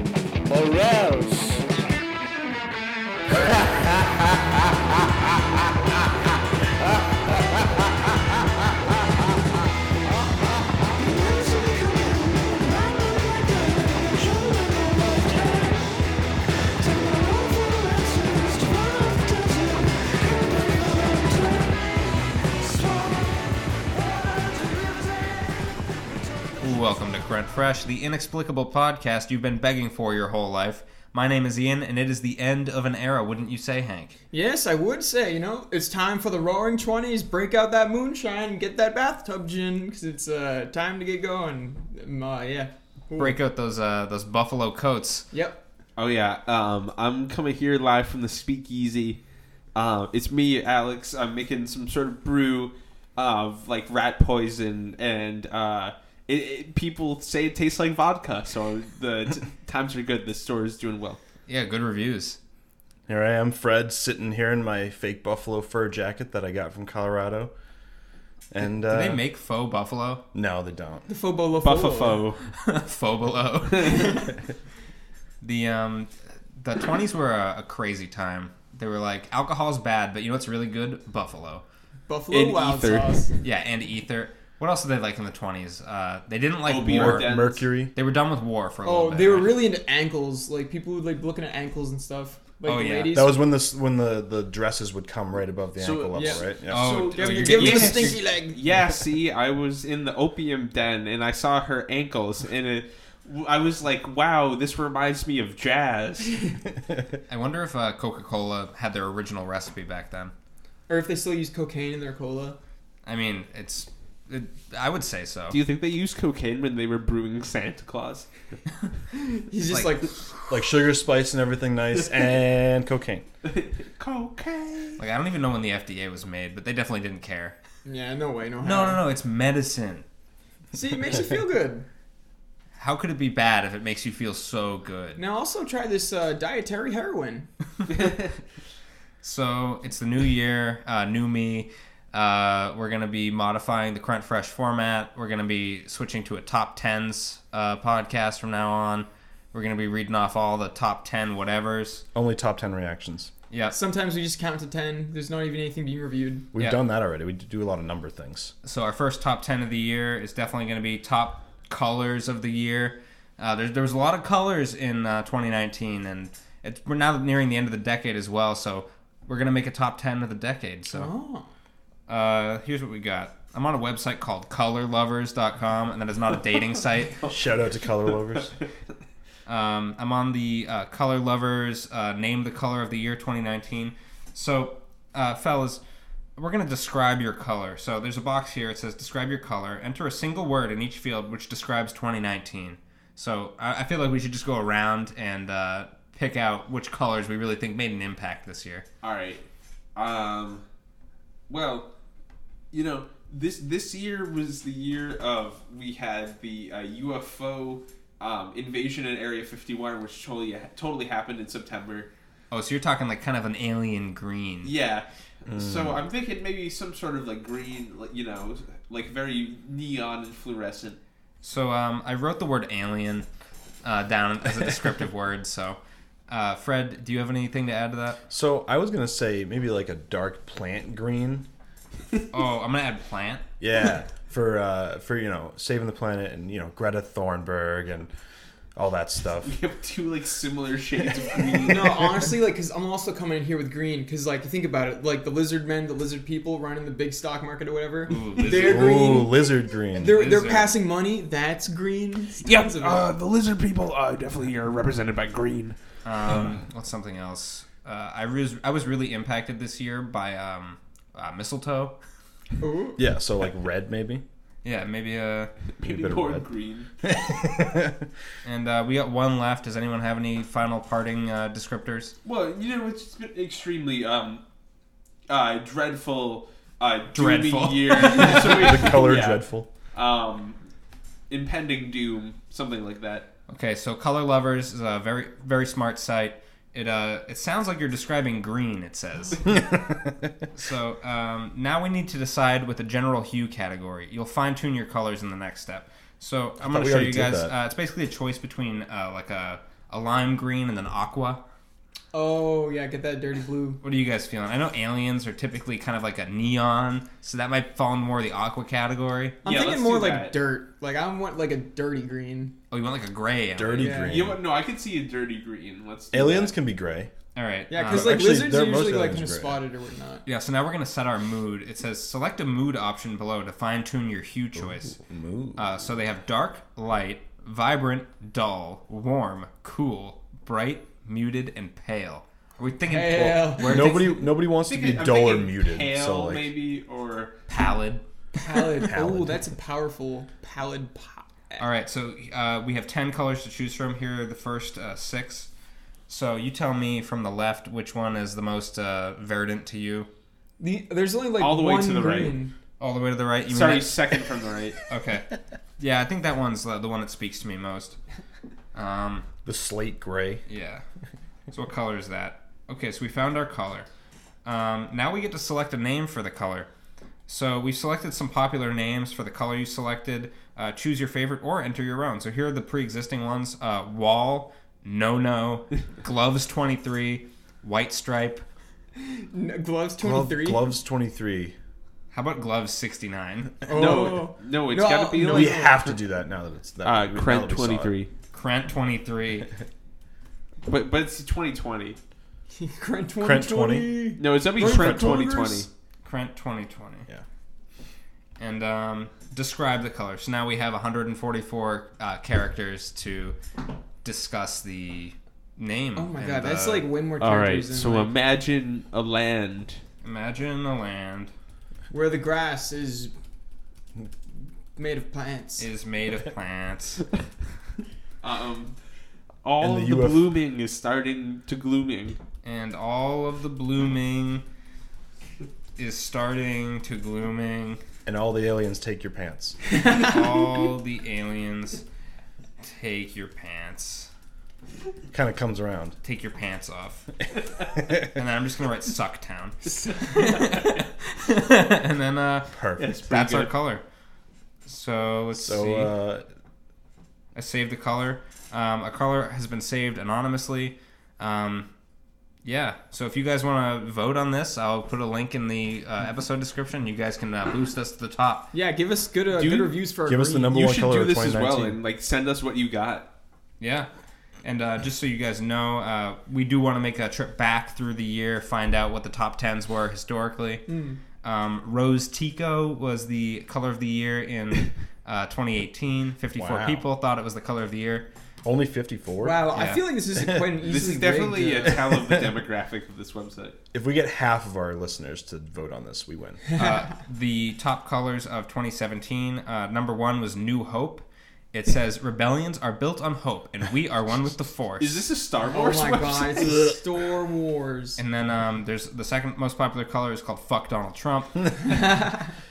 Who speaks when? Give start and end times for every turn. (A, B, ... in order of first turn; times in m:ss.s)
0:00.5-0:01.6 A
0:03.3-0:04.1 A
0:06.9-0:07.6 A
0:11.5-0:11.9 A
0:14.0-0:14.6 A
0:26.6-0:34.2 B
0:34.3-0:43.4 C
0:43.2-0:45.3 B
0:45.3-0:45.6 C
0:46.0-0:49.2 D
0:49.7-1:01.2 D
1:01.5-1:02.4 B
1:03.1-1:07.5 E
1:08.5-1:09.2 E
1:08.9-1:10.2 B
1:10.3-1:11.0 E
1:11.1-1:12.2 C
1:11.6-1:12.4 D
1:12.6-1:14.4 B
1:15.4-1:21.6 B
1:22.1-1:23.4 C
1:22.3-1:23.2 D
1:23.4-1:27.4 B
1:26.6-1:27.6 D
1:26.8-1:27.9 E
1:27.9-1:29.6 B
1:28.8-1:33.4 C
1:32.6-1:33.2 B
1:33.1-1:37.1 E
1:35.8-1:46.4 D
1:36.1-1:36.4 C
1:36.7-1:38.2 B
1:37.1-1:38.6 C
1:47.3-1:50.3 B
1:50.9-1:52.6 C
1:53.0-1:55.6 B
1:55.5-1:58.3 D
1:59.1-2:00.2 C
1:59.7-2:00.1 B
2:00.5-2:03.2 E
2:03.4-2:05.0 D
2:05.0-2:07.6 B
2:07.8-2:09.0 C
2:08.6-2:10.0 B
2:10.7-2:11.8 C
2:12.8-2:15.2 B
2:15.2-2:17.5 C
2:19.2-2:32.0 B
2:32.1-2:33.3 E
2:33.5-2:33.8 B
2:33.7-2:36.5 C
2:36.5-2:38.5 E
2:38.6-2:51.1 B
2:50.9-2:51.5 C
2:52.1-2:57.2 B
2:57.1-2:58.7 D
2:57.3-2:58.5 E
2:59.5-3:05.8 B
3:06.4-3:18.8 B
3:19.0-3:20.6 D
3:21.5-3:21.9 D
3:22.7-3:32.1 D
3:32.5-3:34.7 B
3:34.6-3:41.0 D
3:35.5-3:36.0 E
3:41.4-3:43.2 B
3:43.8-3:48.2 B
3:48.3-3:51.5 E
3:52.3-3:53.4 B
3:53.6-3:58.1 E
3:58.7-3:59.6 E
3:59.4-4:02.1 D
4:01.6-4:09.4 C
4:08.1-4:09.0 B
4:08.4-4:08.7 D
4:08.5-4:10.2 E
4:09.9-4:13.1 C
4:10.0-4:10.7 B
4:12.4-4:15.8 D
4:16.0-4:21.9 B
4:22.6-4:23.0 C
4:23.0-4:24.2 E
4:24.6-4:25.5 B
4:25.8-4:26.9 D
4:25.8-4:26.5 E
4:27.0-4:28.0 E
4:28.4-4:32.1 B
4:32.2-4:34.4 D
4:35.3-4:40.6 D
4:37.1-4:38.8 B
4:38.2-4:39.7 E
4:41.3-4:43.3 D
4:43.5-4:49.6 B
4:49.4-4:50.4 E
4:50.5-5:01.4 B
4:56.6-4:57.5 E
5:02.1-5:03.8 C
5:03.8-5:09.4 B
5:09.4-5:10.4 D
5:09.4-5:12.5 C
5:12.7-5:14.0 B
5:13.6-5:14.4 E
5:13.8-5:14.1 C
5:14.1-5:16.5 D
5:16.1-5:17.1 E
5:17.3-5:18.5 B
5:17.7-5:20.2 C
5:17.9-5:19.6 E
5:20.2-5:25.0 B
5:24.6-5:25.6 E
5:25.6-5:34.3 B
5:32.8-5:34.0 C
5:33.6-5:36.5 E
5:34.6-5:37.4 D
5:37.5-5:38.0 B
5:38.3-5:41.6 C
5:38.8-5:39.5 E
5:41.6-5:45.5 B
5:46.1-5:50.1 B
5:50.6-5:52.5 C
5:51.4-5:52.4 D
5:52.8-5:54.2 B
5:53.5-5:54.8 D
5:54.9-5:55.3 B
5:55.8-5:58.0 B
5:58.7-5:59.3 B
5:59.4-6:00.4 E
6:00.5-6:00.8 B
6:01.5-6:03.9 B
6:04.4-6:06.7 B
6:07.3-6:18.4 B
6:19.0-6:20.7 C
6:20.0-6:21.5 E
6:22.1-6:23.6 B
6:23.6-6:25.8 C
6:23.7-6:25.6 D
6:25.2-6:27.9 E
6:26.8-6:28.1 D
6:28.3-6:29.5 B
6:30.6-6:32.0 D
6:32.5-6:35.7 C
6:33.2-6:34.0 E
6:34.2-6:35.7 D
6:34.6-6:35.3 E
6:36.0-6:37.1 B
6:38.4-6:43.4 B
6:44.0-6:46.9 B
6:46.0-6:48.1 C
6:47.2-6:49.8 D
6:50.0-6:51.3 B
6:51.9-6:53.1 C
6:54.8-6:55.7 C
6:55.6-6:57.0 B
6:58.2-6:58.8 D
6:59.4-7:02.2 D
6:59.6-7:00.3 E
7:02.4-7:04.4 B
7:05.8-7:07.8 B
7:08.0-7:09.6 E
7:09.7-7:10.1 C
7:09.8-7:11.8 B
7:12.6-7:14.1 B
7:15.1-7:16.0 E
7:16.0-7:17.1 B
7:17.9-7:23.8 B
7:19.6-7:20.7 C
7:22.5-7:22.9 E
7:22.8-7:23.5 D
7:24.6-7:25.9 B
7:25.3-7:26.3 E
7:27.3-7:31.7 B
7:32.4-7:38.5 B
7:38.5-7:40.5 C
7:39.3-7:39.7 D
7:40.0-7:41.8 E
7:40.5-7:43.1 D
7:43.6-7:43.9 B
7:44.4-7:50.6 B
7:50.7-7:51.0 C
7:51.2-7:58.1 B
7:56.3-7:56.9 E
7:58.4-7:59.5 E
7:59.2-8:01.9 C
7:59.5-7:59.8 B
8:00.1-8:00.6 E
8:00.6-8:03.6 D
8:03.7-8:06.4 E
8:06.5-8:15.0 B
8:14.8-8:16.7 D
8:15.5-8:18.0 C
8:18.0-8:21.9 B
8:21.7-8:22.2 C